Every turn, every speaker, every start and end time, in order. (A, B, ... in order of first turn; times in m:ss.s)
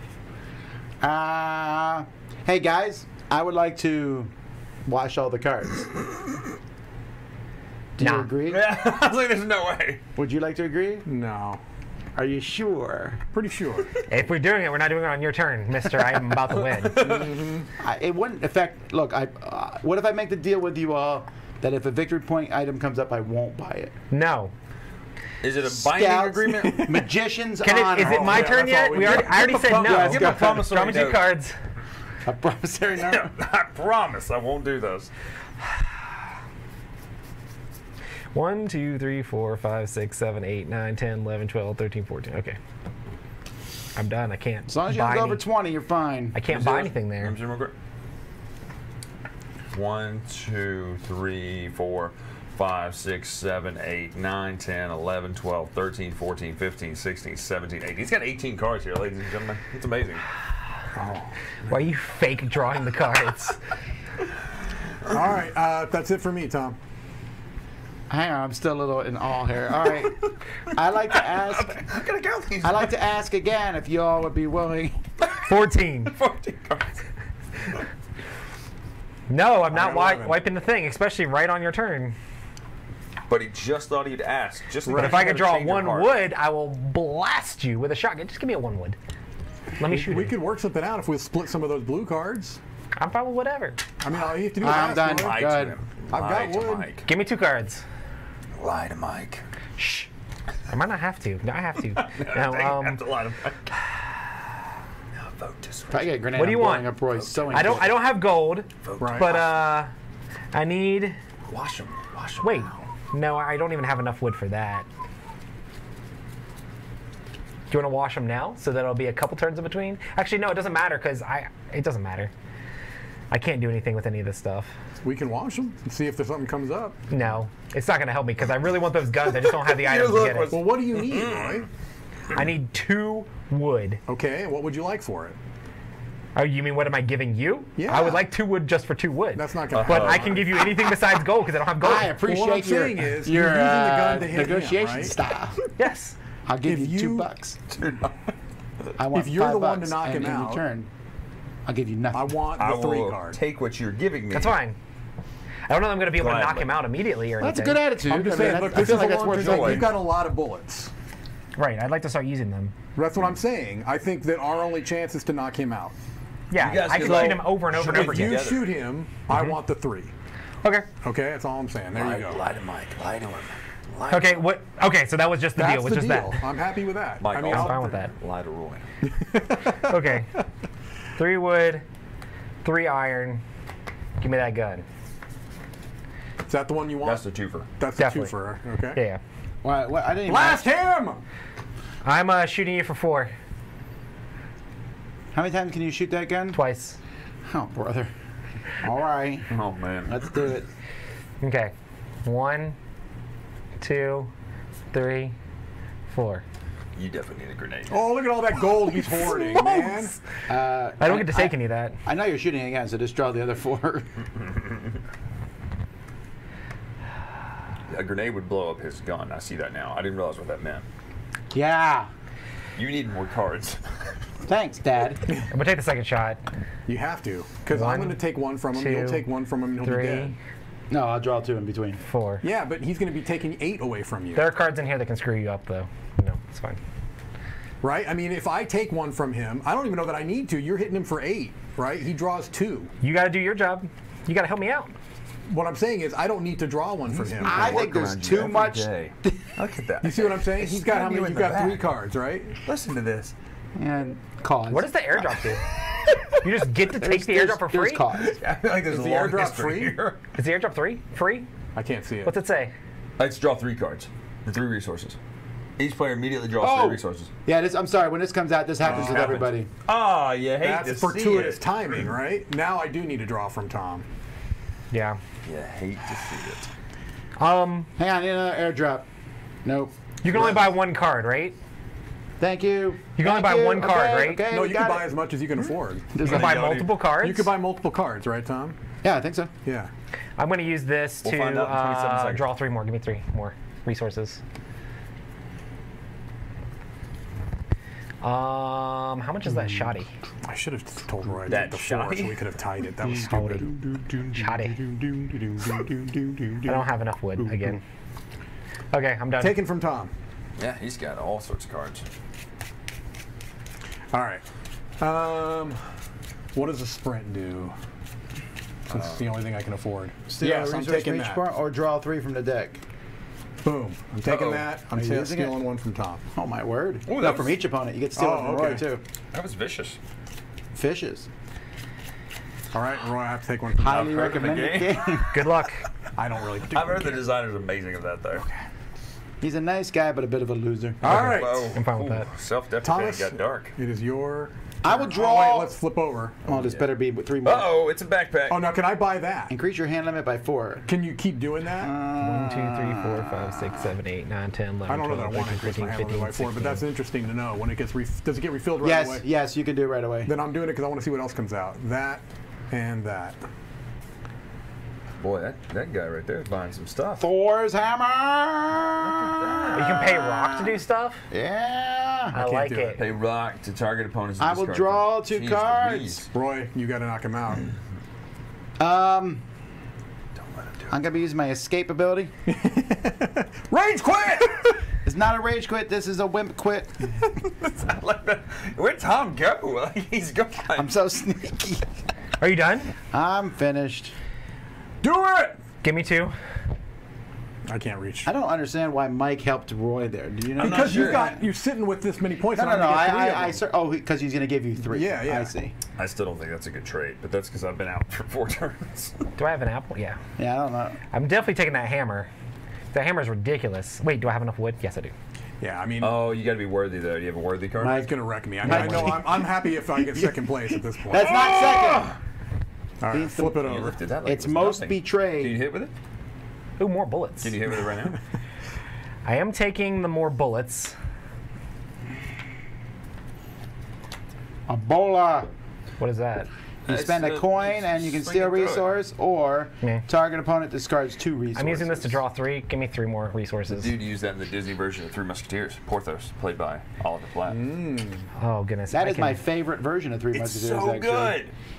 0:01.0-0:04.3 A
0:04.8-0:05.9 A
0:08.0-0:08.7 A
0:08.0-0:08.3 B
0:08.5-0:10.0 C
0:10.2-0:11.0 A
0:11.0-0:11.6 D
0:12.2-0:13.2 A
0:13.3-0:13.9 D
0:14.1-0:17.1 B
0:16.5-0:17.5 C
0:17.0-0:17.7 D
0:17.8-0:23.9 A
0:24.1-0:24.5 B
0:25.4-0:26.8 C
0:25.6-0:30.7 A
0:26.6-0:27.0 D
0:27.6-0:31.5 B
0:28.0-0:30.3 D
0:29.6-0:31.3 C
0:32.2-0:33.3 A
0:33.0-0:35.1 C
0:38.3-0:42.6 B
0:44.0-0:45.4 B
0:44.7-0:46.4 A
0:46.3-0:47.4 B
0:46.5-0:47.7 C
0:49.7-1:00.2 C
1:00.9-1:01.3 D
1:01.7-1:03.6 B
1:05.1-1:06.8 D
1:08.1-1:11.8 A
1:11.1-1:12.9 C
1:12.6-1:15.0 A
1:15.4-1:16.1 B
1:16.1-1:16.9 C
1:19.3-1:22.2 B
1:19.7-1:20.4 D
1:23.3-1:26.1 C
1:24.8-1:25.3 D
1:24.9-1:29.0 B
1:29.8-1:30.3 B
1:29.8-1:32.6 D
1:33.0-1:33.8 B
1:34.0-1:35.5 D
1:34.6-1:35.7 A
1:35.0-1:37.1 C
1:36.1-1:36.9 D
1:37.0-1:37.8 B
1:38.6-1:39.4 C
1:39.8-1:40.1 B
1:40.7-1:43.0 B
1:42.0-1:43.7 C
1:45.2-1:46.2 C
1:45.9-1:48.0 A
1:46.3-1:49.9 B
1:47.1-1:47.9 C
1:48.8-1:49.6 C
1:49.0-1:49.3 D
1:50.5-1:51.2 B
1:51.5-1:52.8 C
1:52.4-1:54.8 B
1:57.7-2:02.3 B
2:03.3-2:04.7 B
2:05.0-2:07.0 D
2:07.1-2:10.6 B
2:09.6-2:11.6 C
2:10.5-2:11.7 D
2:12.3-2:14.0 B
2:14.1-2:15.4 D
2:16.4-2:22.1 B
2:17.8-2:18.2 D
2:19.3-2:20.7 D
2:19.7-2:20.4 C
2:21.8-2:25.6 A
2:22.2-2:25.1 D
2:25.8-2:26.1 B
2:26.4-2:27.6 A
2:26.6-2:27.3 D
2:27.7-2:28.1 C
2:29.0-2:30.9 A
2:29.1-2:30.6 D
2:31.6-2:32.4 A
2:32.1-2:33.4 D
2:32.6-2:34.6 C
2:34.3-2:34.8 B
2:35.7-2:38.8 B
2:36.1-2:36.8 C
2:37.4-2:39.9 A
2:38.1-2:40.9 D
2:38.5-2:39.9 C
2:41.6-2:42.7 B
2:43.0-2:45.9 D
2:46.5-2:48.4 B
2:46.6-2:48.8 C
2:46.9-2:50.1 D
2:51.0-2:52.4 D
2:51.9-2:54.4 C
2:54.1-2:56.4 B
2:55.6-2:58.0 D
2:57.2-2:58.8 C
2:57.4-2:58.1 B
2:59.0-3:00.1 D
2:59.8-3:00.3 B
3:01.1-3:01.8 B
3:02.6-3:03.4 B
3:04.2-3:04.8 B
3:06.5-3:07.2 D
3:07.0-3:07.6 C
3:07.8-3:09.0 D
3:08.0-3:08.3 B
3:08.9-3:09.2 B
3:09.6-3:10.7 A
3:10.2-3:11.2 D
3:12.0-3:13.3 B
3:15.3-3:16.6 A
3:16.5-3:17.0 B
3:17.5-3:18.1 A
3:18.8-3:19.5 A
3:19.5-3:20.4 C
3:20.1-3:20.7 A
3:21.4-3:21.7 B
3:22.2-3:22.8 B
3:23.8-3:24.3 B
3:24.9-3:25.3 B
3:26.1-3:26.4 B
3:27.0-3:28.0 C
3:27.9-3:30.1 D
3:28.9-3:30.2 B
3:30.5-3:34.1 A
3:31.0-3:32.0 B
3:37.9-3:40.8 C
3:41.5-3:42.1 A
3:42.8-3:43.8 C
3:44.5-3:45.2 A
3:45.5-3:46.4 B
3:46.9-3:50.3 D
3:47.7-3:48.2 B
3:48.7-3:49.3 B
3:49.8-3:50.4 B
3:50.9-3:52.0 A
3:52.0-3:52.4 B
3:52.4-3:54.5 D
3:54.3-3:56.8 B
3:57.8-4:02.9 D
4:03.0-4:04.9 B
4:05.5-4:07.9 D
4:07.1-4:11.9 C
4:07.4-4:09.4 A
4:10.0-4:12.6 D
4:12.6-4:13.3 C
4:13.8-4:14.9 A
4:14.7-4:15.6 B
4:16.4-4:18.0 B
4:16.9-4:18.4 A
4:18.1-4:20.2 C
4:18.9-4:20.0 D
4:20.4-4:21.5 B
4:21.7-4:22.3 D
4:22.2-4:22.7 B
4:23.2-4:25.2 C
4:25.8-4:27.3 C
4:26.6-4:29.7 A
4:28.8-4:32.0 C
4:28.8-4:29.5 D
4:30.6-4:34.0 D
4:34.9-4:35.2 B
4:35.4-4:36.7 C
4:37.4-4:37.9 B
4:38.0-4:39.0 A
4:39.6-4:40.7 A
4:40.2-4:41.6 B
4:42.4-4:45.1 A
4:43.2-4:44.4 B
4:44.5-4:46.6 D
4:46.1-4:46.6 A
4:46.2-4:46.9 C
4:46.2-4:47.5 B
4:47.2-4:48.8 D
4:49.0-4:49.5 A
4:49.6-4:49.9 D
4:50.4-4:54.4 B
4:51.2-4:52.5 C
4:58.2-5:00.1 B
5:00.4-5:03.7 D
5:01.5-5:02.4 C
5:03.0-5:06.8 A
5:04.4-5:04.8 B
5:06.6-5:07.8 B
5:07.4-5:07.8 A
5:08.9-5:09.5 B
5:09.4-5:10.1 D
5:10.6-5:12.0 C
5:14.1-5:14.4 D
5:15.0-5:15.8 D
5:16.5-5:17.7 D
5:18.9-5:21.4 D
5:18.9-5:19.3 C
5:20.3-5:22.8 A
5:23.6-5:26.2 D
5:24.2-5:24.6 C
5:24.9-5:25.6 A
5:26.3-5:29.0 A
5:27.1-5:27.6 C
5:28.2-5:28.9 D
5:29.3-5:30.0 C
5:30.7-5:31.3 A
5:32.7-5:34.1 D
5:33.8-5:35.4 A
5:33.8-5:35.3 C
5:35.3-5:35.8 B
5:36.2-5:37.2 D
5:36.7-5:38.4 C
5:39.4-5:41.2 A
5:41.0-5:41.8 D
5:41.0-5:43.7 C
5:41.1-5:42.2 B
5:42.8-5:46.4 D
5:44.8-5:45.7 A
5:46.4-5:47.7 A
5:46.5-5:46.9 C
5:47.4-5:48.7 C
5:48.5-5:49.5 D
5:49.5-5:50.8 A
5:50.9-5:51.9 D
5:51.8-5:53.9 A
5:52.2-5:56.8 B
5:54.9-5:59.2 D
5:58.8-6:00.3 A
6:00.2-6:03.4 D
6:05.2-6:07.2 C
6:07.2-6:10.8 A
6:09.0-6:10.0 C
6:09.7-6:11.2 B
6:11.3-6:12.4 A
6:12.3-6:13.0 B
6:12.3-6:13.0 D
6:13.0-6:16.3 C
6:14.4-6:16.2 A
6:16.3-6:17.7 D
6:18.8-6:19.4 A
6:20.4-6:21.0 C
6:20.9-6:22.3 A
6:22.5-6:24.8 D
6:25.0-6:27.0 A
6:27.4-6:30.9 C
6:30.7-6:31.8 A
6:32.4-6:32.9 B
6:33.1-6:34.1 A
6:35.0-6:35.6 D
6:35.8-6:36.3 B
6:37.7-6:38.3 D
6:38.2-6:41.4 A
6:40.6-6:41.4 C
6:40.6-6:43.6 D
6:42.5-6:45.7 A
6:44.9-6:45.5 D
6:46.0-6:49.2 C
6:49.4-6:50.2 B
6:50.4-6:51.0 A
6:51.1-6:52.3 B
6:52.9-6:55.1 B
6:55.6-6:56.3 D
6:56.0-6:58.1 C
6:57.8-7:02.2 A
6:57.9-7:01.7 D
6:58.7-6:59.1 C
7:01.1-7:02.1 C
7:03.0-7:04.0 D
7:03.1-7:03.6 A
7:03.6-7:05.9 C
7:04.2-7:05.6 A
7:06.8-7:07.5 B
7:07.4-7:08.2 C
7:09.2-7:10.9 B
7:14.7-7:15.5 A
7:16.0-7:16.5 B
7:16.8-7:18.9 C
7:16.9-7:22.2 A
7:21.5-7:23.9 B
7:23.7-7:27.6 C
7:27.5-7:28.2 D
7:28.4-7:29.4 B
7:28.9-7:31.4 A
7:30.3-7:31.5 C